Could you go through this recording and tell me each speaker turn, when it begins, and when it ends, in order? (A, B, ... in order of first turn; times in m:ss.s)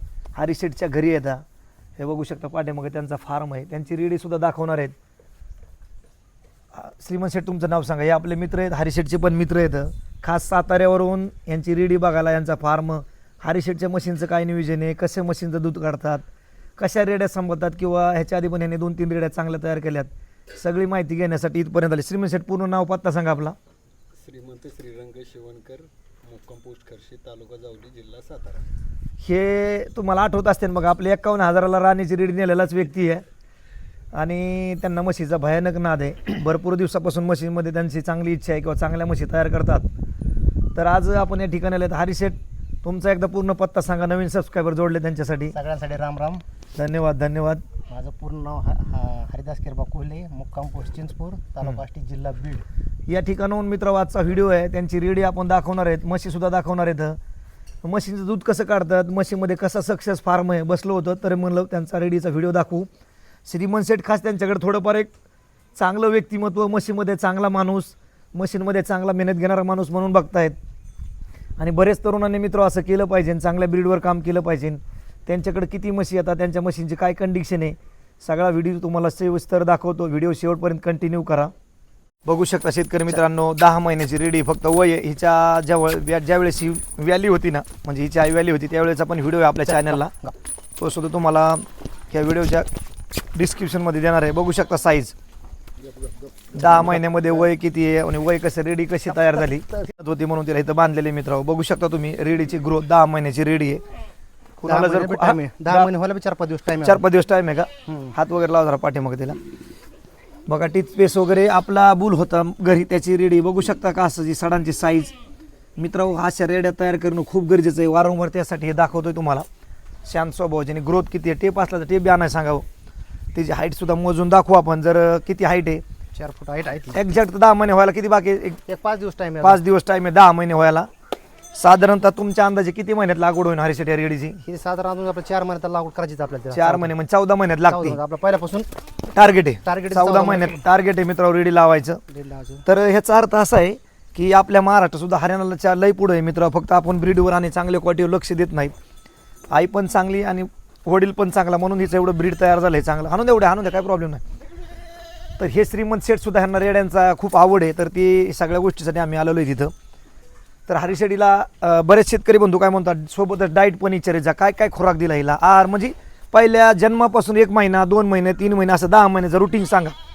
0:00.3-0:01.4 A
0:02.0-0:04.9 A
0:06.7-0:16.2 A
0:16.8-0:23.6 A
0:24.2-0:28.7 B
0:29.2-0:33.2 A
0:34.1-0:39.9 A
0:40.7-0:45.5 A
0:45.5-0:46.4 C
0:46.7-0:47.6 A
0:47.9-0:52.6 C
0:53.1-0:57.2 A
0:57.8-1:02.9 A
1:03.4-1:05.1 A
1:05.8-1:10.5 A
1:11.6-1:21.5 A
1:22.2-1:30.1 A
1:29.7-1:30.3 C
1:30.8-1:32.7 A
1:33.3-1:35.1 A
1:35.8-1:37.0 B
1:36.6-1:43.8 A
1:39.1-1:39.9 C
1:44.6-1:45.9 A
1:44.6-1:47.0 C
1:46.8-1:49.4 A
1:47.8-1:48.1 C
1:50.5-1:55.1 A
1:55.8-1:59.4 A
2:00.0-2:02.6 A
2:03.3-2:05.8 A
2:06.2-2:07.0 C
2:06.9-2:08.6 A
2:08.7-2:09.6 C
2:09.4-2:10.9 A
2:11.5-2:14.4 A
2:14.4-2:16.9 C
2:16.5-2:18.0 A
2:17.7-2:18.7 C
2:19.1-2:22.0 A
2:19.6-2:20.6 C
2:22.1-2:22.6 C
2:22.6-2:28.8 A
2:29.5-2:34.2 A
2:35.4-2:39.7 A
2:40.7-2:50.0 A